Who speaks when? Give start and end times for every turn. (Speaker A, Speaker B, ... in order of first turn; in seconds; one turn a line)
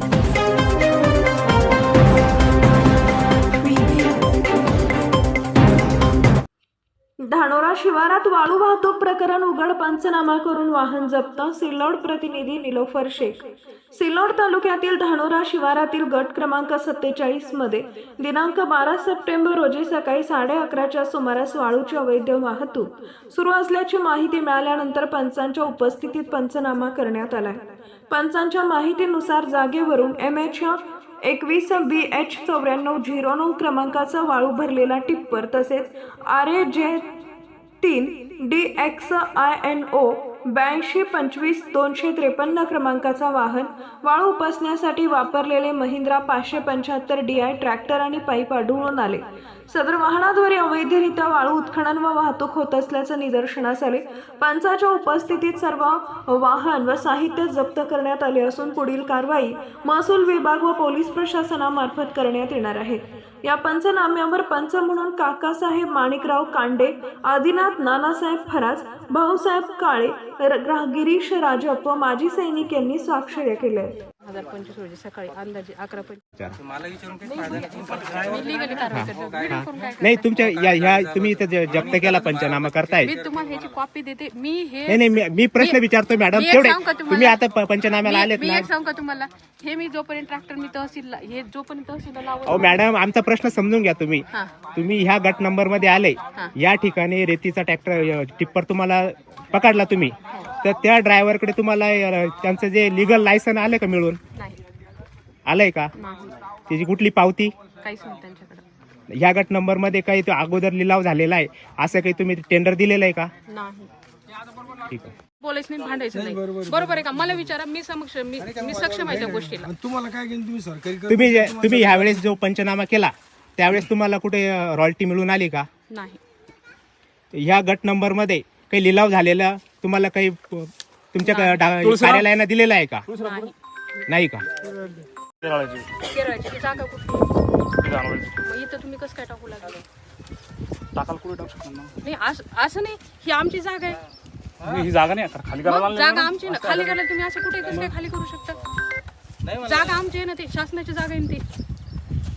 Speaker A: 7.2-37.0
Speaker A: 37.8-73.9
Speaker B: 74.2-76.2
Speaker C: 76.7-78.5
Speaker B: 77.2-80.4
Speaker D: 78.9-83.1
Speaker C: 80.5-83.5
Speaker B: 83.0-85.0
Speaker D: 84.9-88.7
Speaker B: 86.3-87.4
Speaker B: 88.0-92.8
Speaker D: 92.5-104.2
Speaker D: 105.5-105.9
Speaker B: 106.0-106.3
Speaker D: 106.7-107.5
Speaker B: 107.8-108.6
Speaker D: 109.1-113.3
Speaker B: 113.5-113.9
Speaker D: 114.9-115.2
Speaker B: 115.4-119.7
Speaker E: 116.1-117.5
Speaker E: 118.4-122.3
Speaker D: 121.1-125.7
Speaker B: 125.9-126.2
Speaker D: 127.3-133.0
Speaker B: 131.2-131.6
Speaker F: 131.8-132.3
Speaker F: 133.1-133.5
Speaker B: 133.2-133.5
Speaker D: 134.1-134.4
Speaker F: 135.4-135.9
Speaker B: 136.1-137.3
Speaker F: 137.8-138.3
Speaker B: 138.4-139.8
Speaker F: 141.0-141.9
Speaker B: 142.0-144.0
Speaker F: 144.7-147.0
Speaker B: 145.6-148.6
Speaker F: 147.7-147.9
Speaker B: 149.6-151.4